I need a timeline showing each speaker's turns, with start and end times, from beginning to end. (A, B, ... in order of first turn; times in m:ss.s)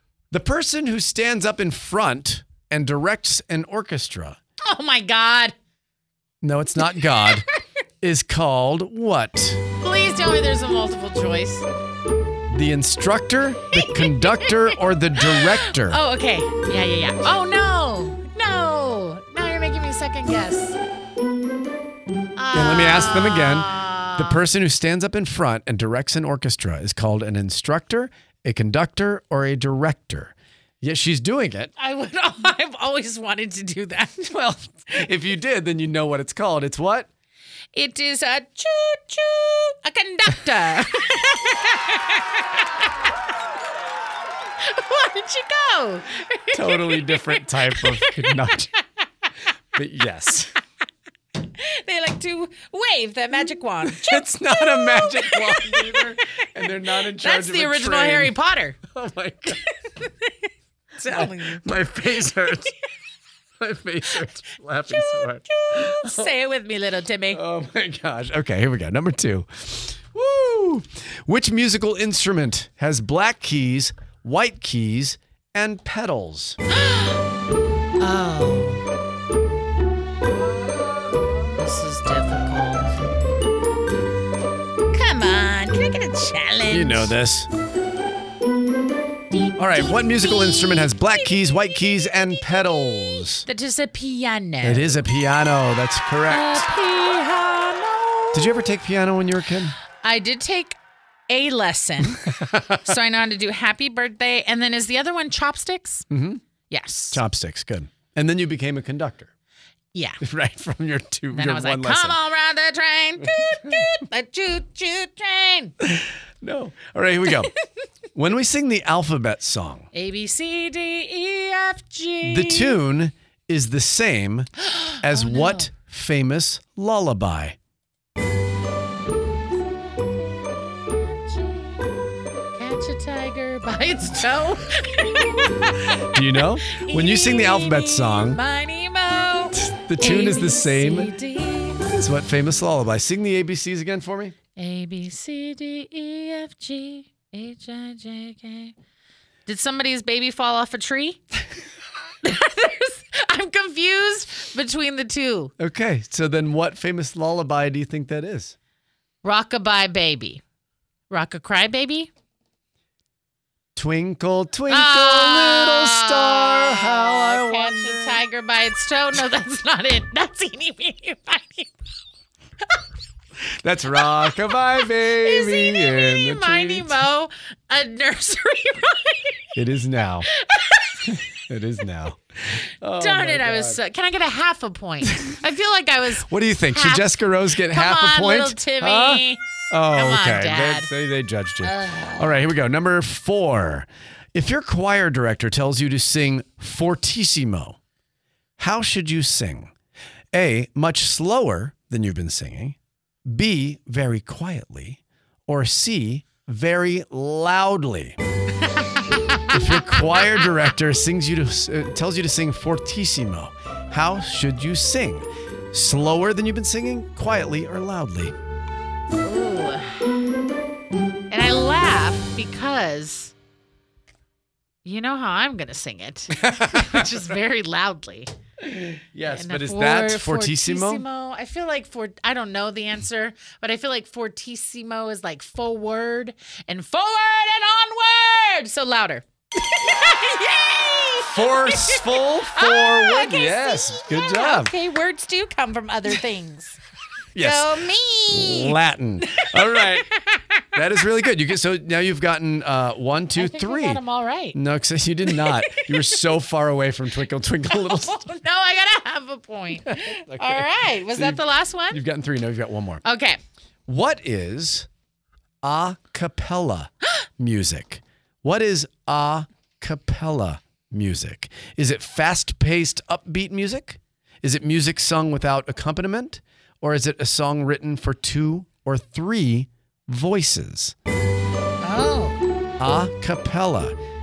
0:00.3-0:04.4 A
0:04.6-0:05.6 B
0:06.4-0:07.5 A
0:06.9-0:07.3 B
0:08.0-0:09.6 A
0:09.8-0:11.7 B
0:12.5-0:16.0 A
0:13.7-0:20.8 B
0:22.4-0:24.4 B
0:22.5-0:31.7 A
0:31.8-0:34.3 B
0:34.2-0:37.1 A
0:37.7-0:42.9 B
0:44.6-0:48.5 B
0:46.5-0:48.7 A
0:49.7-0:50.6 A
0:51.5-0:56.4 B
0:53.8-0:58.4 A
0:57.0-0:58.8 B
0:58.9-0:59.6 A
0:59.7-1:00.4 B
1:01.0-1:01.6 B
1:01.1-1:02.7 A
1:03.6-1:06.3 A
1:04.9-1:07.4 B
1:07.3-1:16.6 A
1:16.7-1:17.2 B
1:18.0-1:18.8 B
1:20.4-1:21.6 A
1:21.6-1:22.9 B
1:24.9-1:27.1 B
1:26.7-1:27.5 A
1:29.3-1:31.3 B
1:29.6-1:33.5 A
1:33.5-1:35.0 B
1:34.6-1:36.7 A
1:36.3-1:38.7 B
1:38.3-1:39.8 A
1:40.0-1:40.8 B
1:41.3-1:46.1 B
1:42.2-1:42.8 A
1:46.1-1:46.4 A
1:46.7-1:47.2 B
1:47.1-1:49.3 A
1:49.9-1:50.2 B
1:50.2-1:52.2 A
1:51.3-1:55.8 B
1:53.2-1:54.0 A
1:55.8-1:57.5 A
1:58.2-1:59.9 A
1:59.9-2:02.8 B
2:02.2-2:07.6 A
2:04.6-2:05.7 B
2:09.1-2:11.9 B
2:12.6-2:21.8 B
2:16.0-2:18.4 A
2:19.5-2:21.1 A
2:21.8-2:24.4 A
2:24.6-2:28.8 B
2:29.5-2:31.2 B
2:32.2-2:35.5 B
2:35.6-2:38.6 A
2:39.2-2:40.4 B
2:41.1-2:42.1 B
2:43.8-2:48.2 A
2:44.7-2:51.8 B
2:53.6-2:57.0 A
2:54.8-2:59.6 B
2:59.6-3:00.3 A
3:00.3-3:01.3 B
3:01.1-3:03.8 A
3:02.9-3:10.9 B
3:05.0-3:05.4 A
3:06.2-3:17.8 A
3:11.6-3:12.4 B
3:18.6-3:19.7 A
3:20.3-3:28.2 A
3:28.8-3:30.4 B
3:29.5-3:38.4 A
3:39.2-3:40.3 B
3:41.3-3:43.3 B
3:44.8-3:48.3 B
3:46.4-3:47.2 A
3:48.6-3:51.0 A
3:49.3-4:06.8 B
4:01.3-4:04.7 A
4:07.4-4:10.1 A
4:07.4-4:10.7 B
4:10.7-4:14.0 A
4:13.4-4:14.6 B
4:14.5-4:18.2 A
4:15.3-4:16.2 B
4:17.7-4:22.0 B
4:19.8-4:23.0 A
4:23.0-4:23.4 B
4:23.9-4:24.9 A
4:25.6-4:41.0 A
4:41.8-4:42.4 B
4:42.8-4:44.0 A